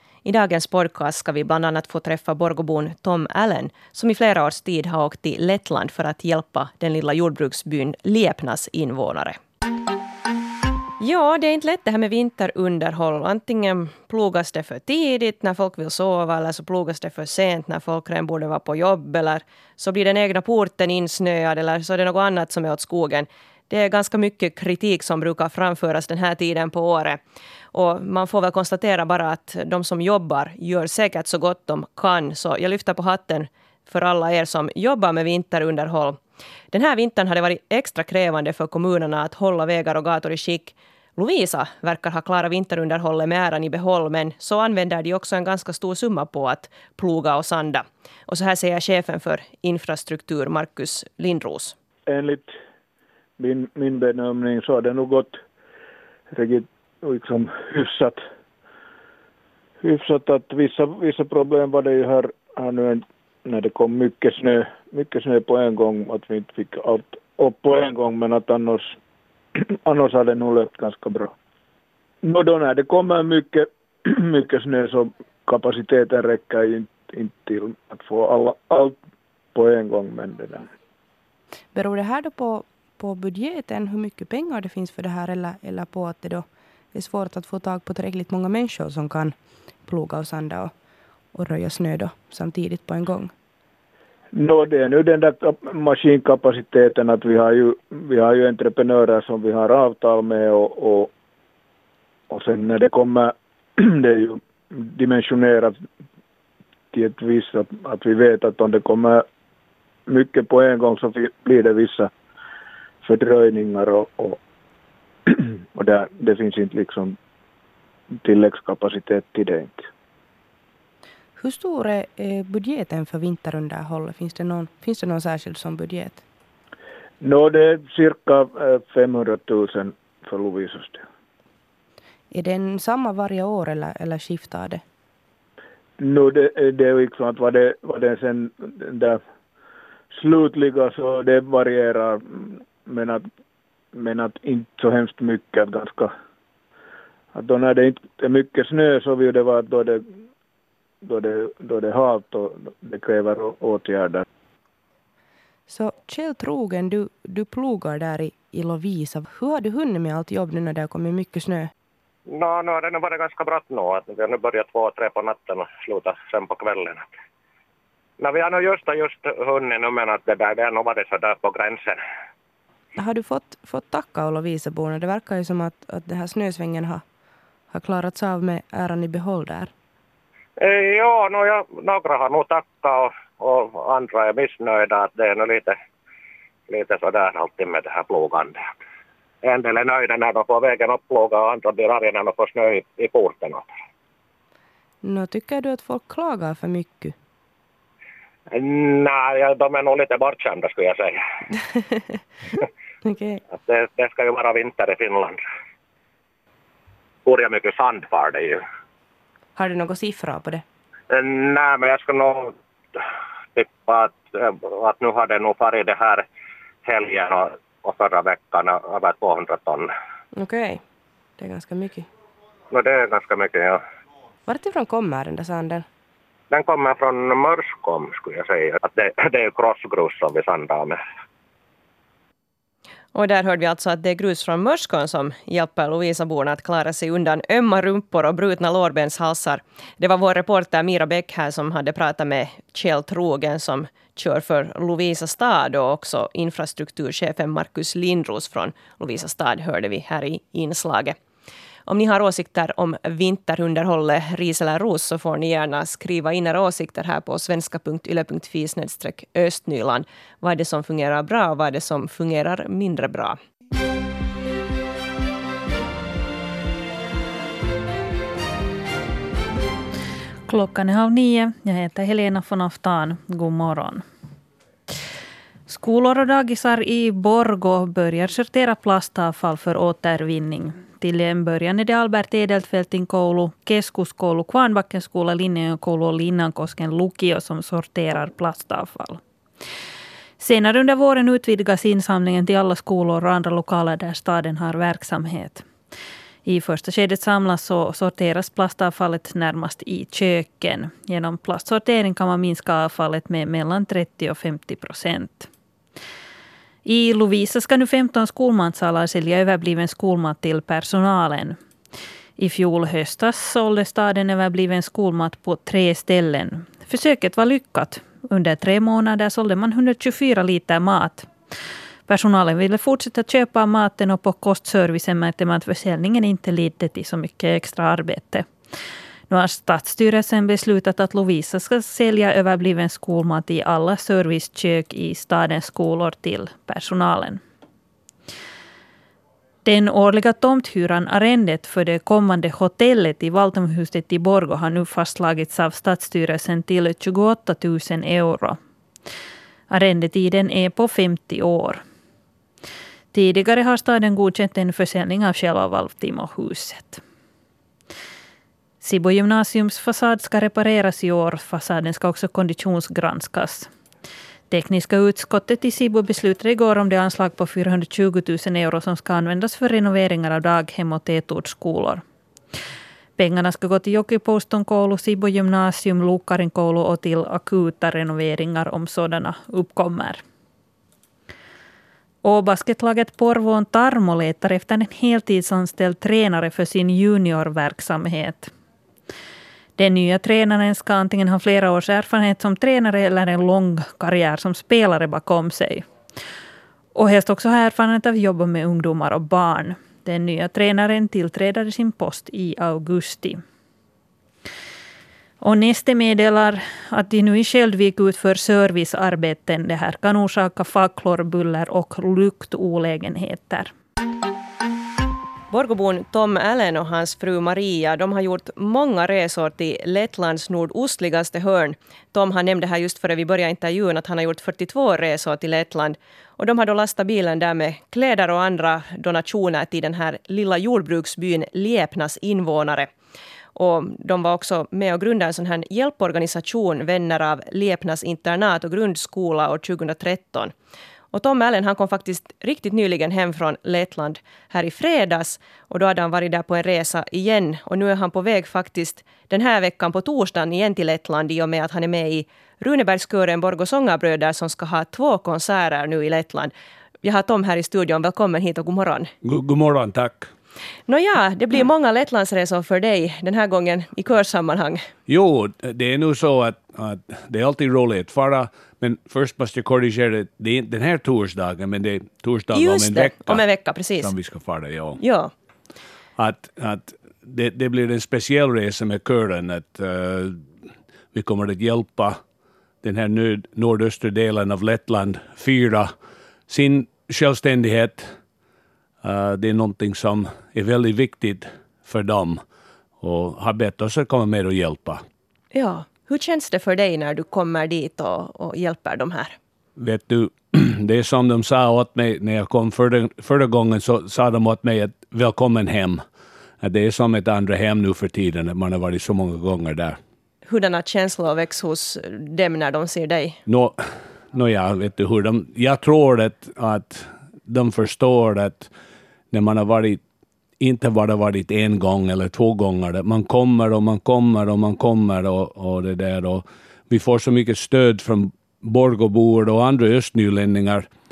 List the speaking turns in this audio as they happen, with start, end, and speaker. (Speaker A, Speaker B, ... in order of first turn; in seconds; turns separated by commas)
Speaker A: 0.2-9.4, Speaker A: 11.0-27.2, Speaker A: 27.7-36.2, Speaker A: 36.7-51.8, Speaker B: 52.1-52.5, Speaker B: 53.4-55.4, Speaker B: 56.3-58.2, Speaker B: 59.8-68.9, Speaker B: 69.6-71.3, Speaker B: 72.2-79.0, Speaker B: 79.5-80.7, Speaker C: 81.7-90.7, Speaker C: 91.3-93.3, Speaker B: 94.3-101.1, Speaker B: 102.3-105.7, Speaker B: 106.9-109.2, Speaker B: 110.1-112.1, Speaker B: 113.0-114.4, Speaker B: 115.3-117.2, Speaker B: 118.2-119.9, Speaker C: 121.4-126.2, Speaker B: 127.2-131.0, Speaker C: 132.3-134.8, Speaker B: 136.0-139.2, Speaker B: 140.1-143.2, Speaker B: 143.9-146.1, Speaker B: 147.3-150.0, Speaker B: 151.0-154.2, Speaker C: 155.7-161.7, Speaker D: 162.3-167.1, Speaker D: 168.2-172.0, Speaker C: 173.0-177.0, Speaker C: 177.7-179.7, Speaker D: 180.6-185.8, Speaker D: 186.7-188.6, Speaker D: 189.4-193.7, Speaker C: 195.0-197.2, Speaker D: 198.5-201.2, Speaker C: 203.0-203.4, Speaker D: 203.5-205.4, Speaker D: 207.2-208.6, Speaker C: 209.6-210.6, Speaker D: 211.1-213.0, Speaker D: 213.5-216.2, Speaker D: 216.8-219.9, Speaker C: 220.3-220.8, Speaker C: 221.4-222.1, Speaker D: 222.7-223.8, Speaker C: 224.5-225.8, Speaker D: 226.5-231.0, Speaker A: 233.1-251.2, Speaker A: 251.9-263.4, Speaker E: 270.5-274.0, Speaker E: 275.7-289.2, Speaker E: 290.4-295.6, Speaker E: 296.4-305.5, Speaker E: 306.9-311.6, Speaker E: 312.4-321.3, Speaker E: 322.1-328.5, Speaker E: 329.3-337.4, Speaker E: 339.6-348.6, Speaker E: 349.7-351.8, Speaker E: 353.1-357.0, Speaker E: 358.8-363.7, Speaker E: 364.5-372.0, Speaker E: 373.2-380.2, Speaker E: 382.2-388.5, Speaker E: 389.8-395.9, Speaker E: 396.9-403.4, Speaker E: 405.4-413.7, Speaker A: 415.5-432.9, Speaker A: 433.6-440.5, Speaker A: 441.1-459.1, Speaker F: 459.2-460.3, Speaker A: 460.9-464.9, Speaker F: 465.1-473.4, Speaker A: 472.5-474.1, Speaker F: 474.0-475.0, Speaker A: 475.0-475.3, Speaker F: 476.2-480.4, Speaker F: 481.1-482.2, Speaker F: 482.8-485.9, Speaker F: 486.5-488.1, Speaker F: 489.0-492.4, Speaker F: 493.0-495.0, Speaker A: 495.5-499.4, Speaker F: 499.8-506.0, Speaker F: 506.6-510.0, Speaker A: 510.5-513.4, Speaker F: 513.5-513.8, Speaker F: 514.3-518.7, Speaker F: 519.3-520.0, Speaker F: 520.6-530.9